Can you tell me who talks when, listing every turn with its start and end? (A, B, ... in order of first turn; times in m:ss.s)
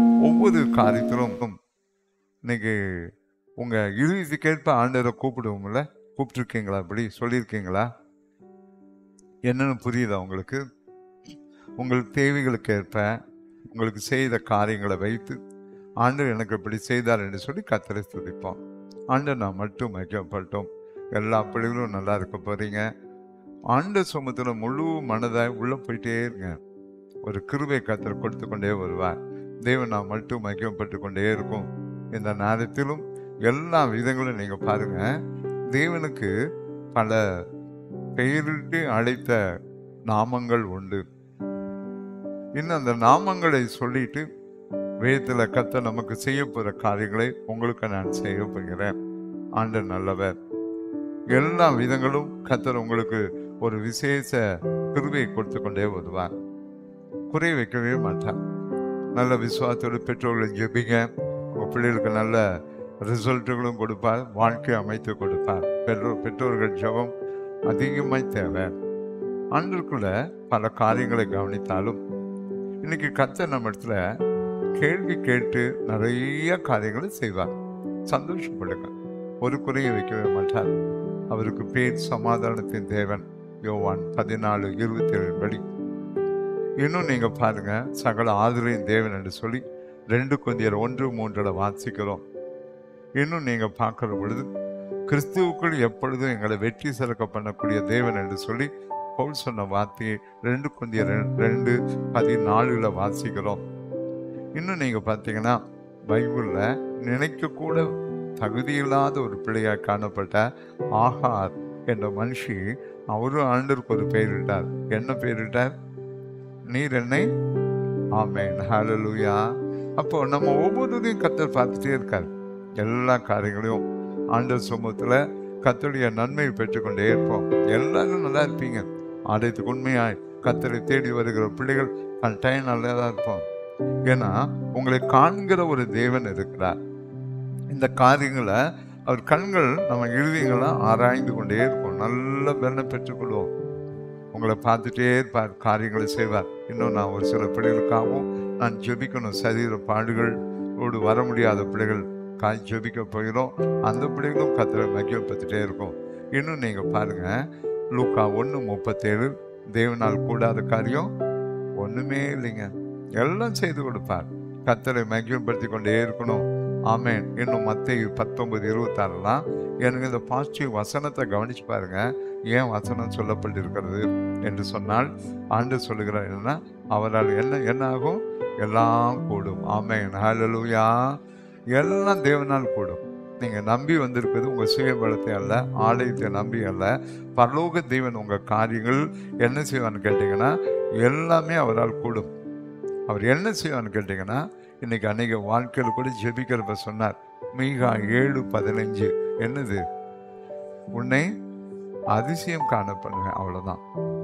0:00.2-0:01.6 A
0:02.5-0:07.9 A
0:09.4-0:10.6 A
0:11.8-0:13.2 A
0:13.7-0:15.4 A
0:16.0-0:22.9 A
0:23.7-0:26.6 A
0:27.2-0:35.1 A
0:35.7-0:36.3 A
0:36.9-0:37.4 A
0:38.2-0:39.4 A
0:40.1-0:41.0 A
0:42.6-0:44.2 A
0:45.0-0:48.9 A
0:49.6-0:50.3 A
0:51.3-0:56.3 A
0:57.3-0:58.4 A
0:59.1-1:02.4 A
1:03.0-1:07.1 A
1:07.7-1:08.7 A
1:09.5-1:12.0 A
1:12.8-1:14.0 A
1:14.7-1:17.5 A
1:18.1-1:25.6 A
1:26.8-1:32.2 A
1:33.2-1:34.5 A
1:35.1-1:43.6 A
1:44.6-1:55.7 A
1:56.7-1:57.3 A
1:58.1-2:13.4 A
2:14.1-2:16.8 A
2:17.7-2:23.5 A
2:24.3-2:37.4 A
2:37.9-2:41.1 A
2:41.8-3:01.2 A
3:01.7-3:12.3 A
3:13.1-3:19.8 A
3:20.9-3:21.3 A
3:22.1-3:23.8 A